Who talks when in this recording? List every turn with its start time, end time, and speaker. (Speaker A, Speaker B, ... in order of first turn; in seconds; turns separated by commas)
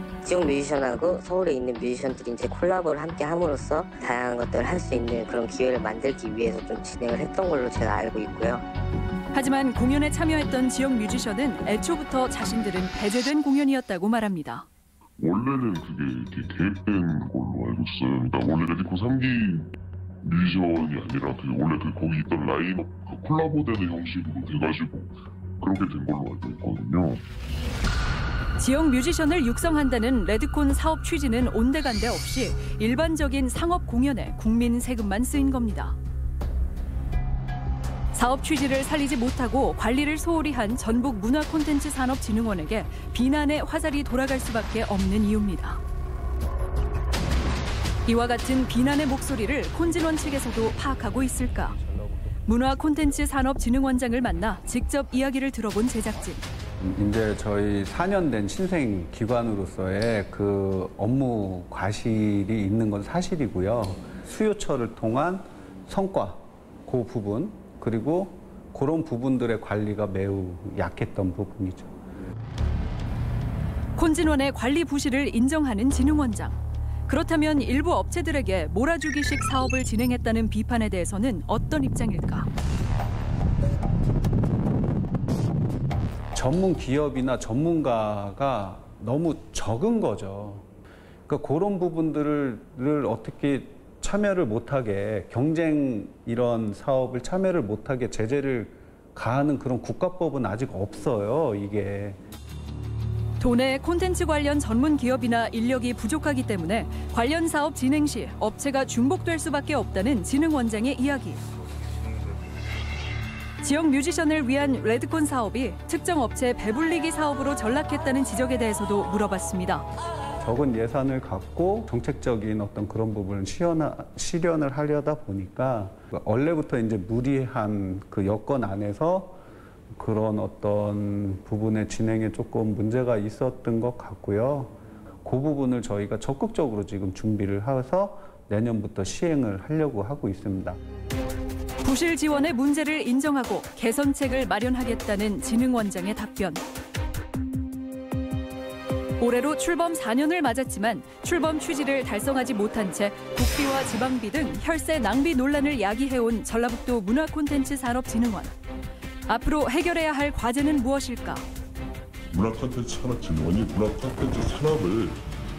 Speaker A: 0.2-8.6, Speaker B: 9.3-14.7, Speaker C: 15.2-19.6, Speaker C: 20.2-25.0, Speaker C: 25.6-27.2, Speaker B: 28.6-36.0, Speaker B: 38.1-45.8, Speaker B: 48.0-51.8, Speaker B: 52.4-56.4, Speaker D: 56.8-71.9, Speaker B: 74.0-82.5, Speaker D: 86.3-90.6, Speaker D: 91.3-102.2, Speaker B: 103.4-111.4, Speaker B: 113.6-119.8, Speaker D: 120.4-129.4, Speaker D: 129.9-140.8, Speaker B: 141.8-146.6, Speaker B: 149.2-158.5, Speaker B: 159.3-161.4, Speaker E: 162.3-165.2